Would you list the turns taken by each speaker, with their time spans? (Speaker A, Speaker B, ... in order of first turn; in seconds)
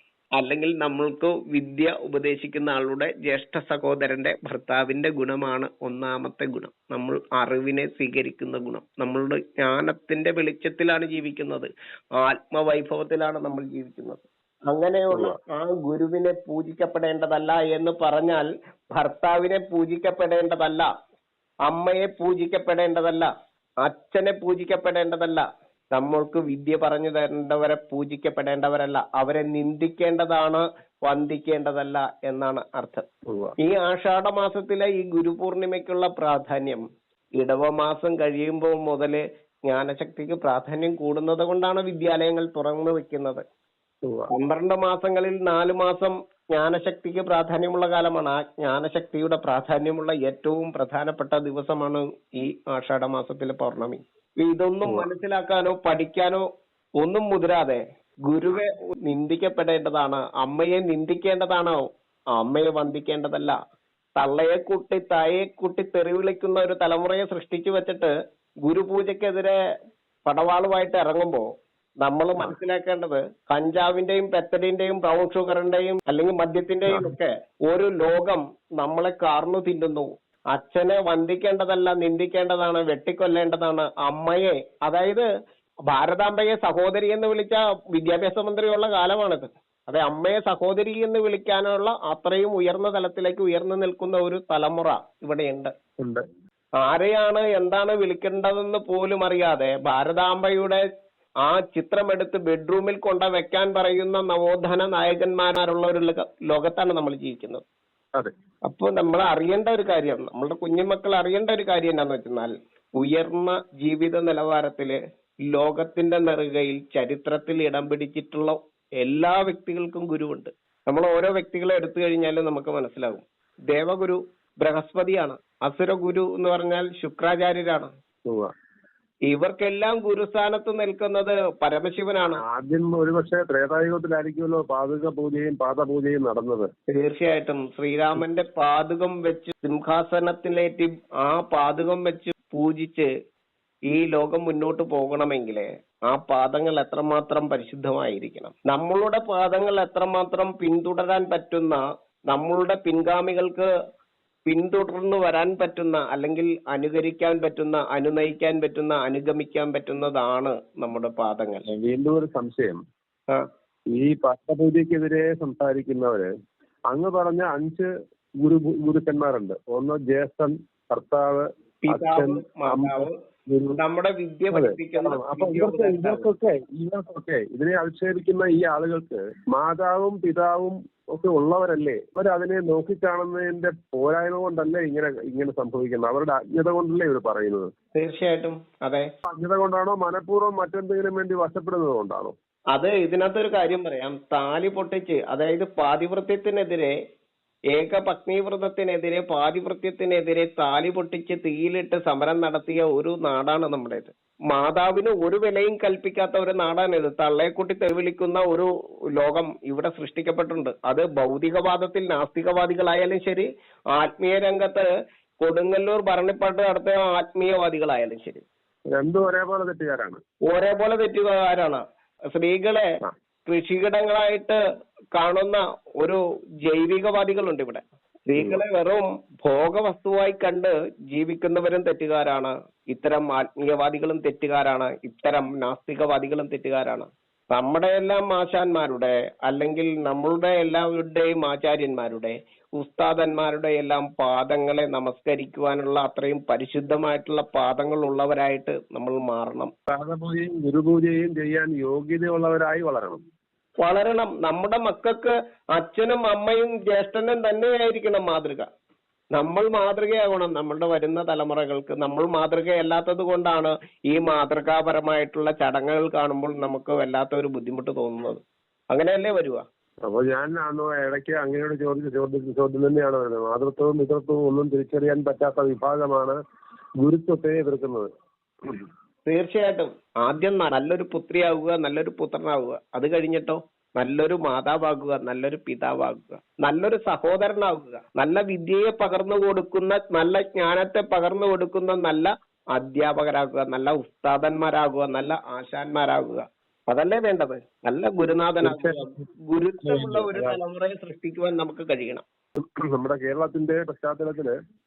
Speaker A: 0.3-20.9, 21.7-23.3, 23.8-33.0, 33.6-36.8, 37.4-43.4, 44.3-56.4, 57.0-63.5, 64.2-68.1, 68.6-69.5, 70.2-71.4, 72.0-85.2, 85.9-95.7, 96.8-100.8, 101.4-107.6, 108.7-127.9, 129.3-132.4, 136.9-143.1, 143.9-153.7, 154.5-161.6, 171.8-173.1, 173.7-176.2, 187.9-189.1, 192.7-196.9, 197.7-214.9, 215.4-218.4, 220.5-221.8, 222.3-222.9, 223.5-224.6, 225.1-249.7, 253.8-258.6, 259.3-269.6, 279.2-302.2
Speaker B: 33.3-33.5, 54.8-55.1, 76.9-77.1, 128.3-128.5, 132.4-136.7, 161.7-162.8, 163.9-166.3, 166.9-167.9, 168.4-173.8, 174.5-187.7, 189.3-192.3, 218.9-220.2, 228.4-228.6, 249.9-253.2, 270.1-276.4, 277.0-278.1, 298.6-299.2, 299.8-300.6, 302.6-304.5